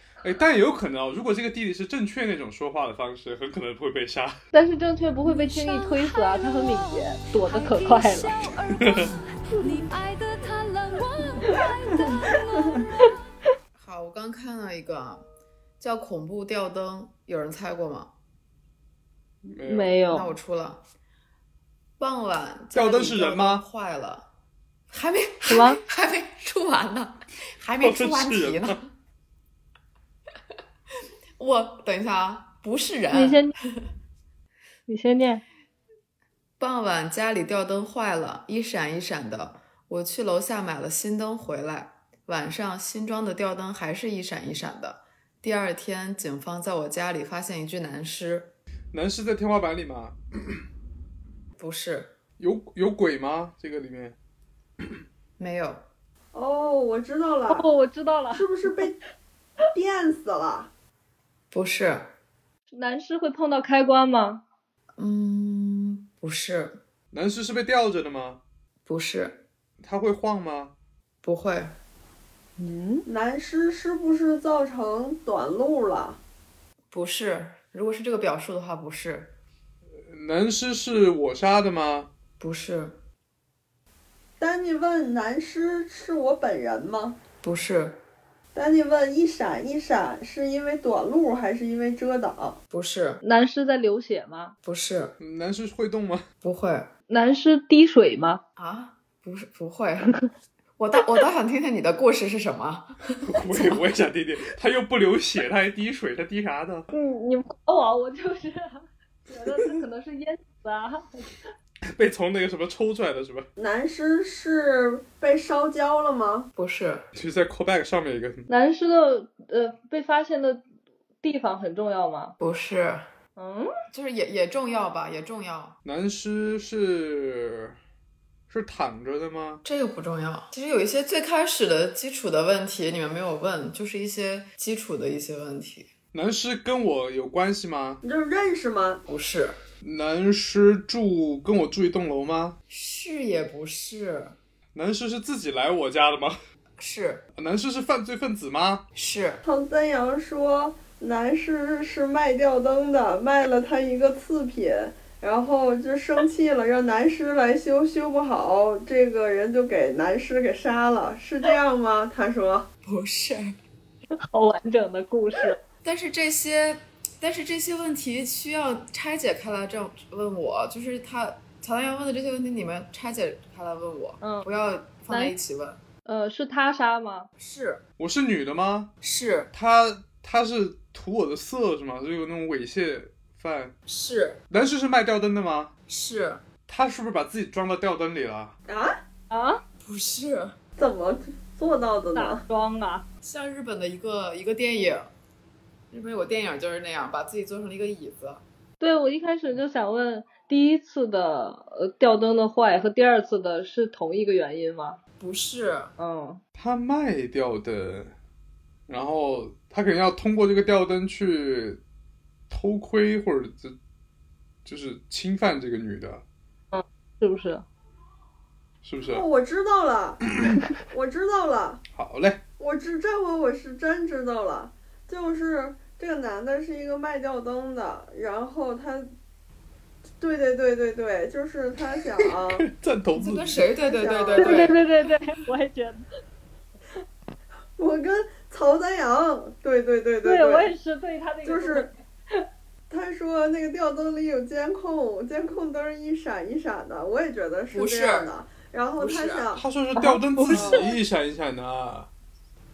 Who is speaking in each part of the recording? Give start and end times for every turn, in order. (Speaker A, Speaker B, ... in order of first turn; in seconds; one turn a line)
Speaker A: 0.2-4.4
Speaker B: 4.5-8.5
Speaker C: 5.2-13.1
Speaker A: 8.8-9.2
Speaker D: 13.8-15.2
Speaker D: 15.8-18.1
Speaker A: 19.4-20.0
Speaker B: 19.7-20.3
Speaker D: 20.1-20.8
Speaker D: 22.0-24.3
Speaker A: 22.7-23.6
Speaker D: 24.9-28.9
Speaker B: 25.5-25.8
Speaker A: 27.8-28.8
Speaker D: 31.4-33.5
Speaker B: 33.1-33.5
Speaker B: 34.9-35.4
Speaker D: 36.6-48.5
Speaker A: 48.9-50.6
Speaker D: 51.6-52.1
Speaker A: 52.4-54.2
Speaker D: 55.4-55.8
Speaker E: 56.3-57.7
Speaker B: 57.5-58.7
Speaker E: 58.3-59.0
Speaker E: 59.7-60.7
Speaker D: 61.5-62.1
Speaker B: 62.7-64.4
Speaker D: 65.0-66.8
Speaker A: 67.1-68.4
Speaker D: 68.8-69.4
Speaker A: 69.8-70.7
Speaker D: 71.2-71.8
Speaker E: 73.0-76.2
Speaker D: 76.9-79.3
Speaker A: 80.1-82.1
Speaker D: 82.4-83.0
Speaker E: 84.4-87.2
Speaker D: 87.4-88.0
Speaker E: 88.5-92.6
Speaker D: 92.7-93.2
Speaker B: 93.2-94.5
Speaker D: 94.6-95.2
Speaker A: 95.2-96.2
Speaker D: 96.4-96.9
Speaker B: 97.1-98.4
Speaker D: 98.5-100.1
Speaker D: 100.8-103.8
Speaker A: 103.2-106.9
Speaker B: 106.9-111.3
Speaker A: 111.8-113.5
Speaker E: 113.6-116.5
Speaker D: 116.5-117.0
Speaker A: 117.1-118.5
Speaker B: 118.5-120.6
Speaker B: 121.2-122.3
Speaker D: 122.4-123.1
Speaker B: 123.4-123.7
Speaker D: 123.9-125.8
Speaker A: 125.8-127.8
Speaker A: 128.5-129.6
Speaker D: 129.6-135.9
Speaker A: 136.1-138.0
Speaker E: 138.0-139.0
Speaker D: 139.1-139.6
Speaker A: 139.8-142.6
Speaker D: 142.7-144.3
Speaker A: 144.7-146.4
Speaker D: 146.8-147.2
Speaker A: 147.3-148.8
Speaker D: 148.9-149.4
Speaker E: 149.4-162.7
Speaker D: 162.8-163.6
Speaker B: 164.2-165.6
Speaker D: 165.8-175.8
Speaker B: 174.2-174.5
Speaker B: 175.1-175.3
Speaker B: 176.0-177.3
Speaker D: 177.4-177.8
Speaker A: 178.0-178.9
Speaker D: 179.0-179.5
Speaker A: 179.5-183.8
Speaker D: 183.9-184.4
Speaker A: 184.5-185.7
Speaker D: 185.9-186.4
Speaker A: 186.7-188.6
Speaker E: 188.7-189.0
Speaker B: 189.3-189.6
Speaker D: 189.8-190.5
Speaker E: 190.8-192.4
Speaker B: 192.1-193.1
Speaker D: 193.2-195.1
Speaker D: 195.9-198.4
Speaker B: 198.8-205.0
Speaker D: 205.2-205.9
Speaker B: 206.0-206.4
Speaker A: 206.6-208.1
Speaker A: 208.9-211.8
Speaker A: 212.5-213.8
Speaker A: 214.6-216.2
Speaker B: 216.7-217.6
Speaker A: 218.8-219.2
Speaker E: 219.1-220.2
Speaker E: 220.9-221.8
Speaker A: 221.9-222.4
Speaker E: 222.6-229.1
Speaker E: 230.2-232.7
Speaker A: 232.5-233.7
Speaker D: 233.2-234.8
Speaker E: 233.9-234.7
Speaker B: 234.4-236.0
Speaker E: 237.8-240.7
Speaker B: 240.2-242.4
Speaker E: 241.4-241.9
Speaker E: 242.9-249.6
Speaker D: 247.7-248.3
Speaker D: 249.0-249.5
Speaker A: 249.5-252.1
Speaker B: 250.0-250.8
Speaker E: 250.4-250.8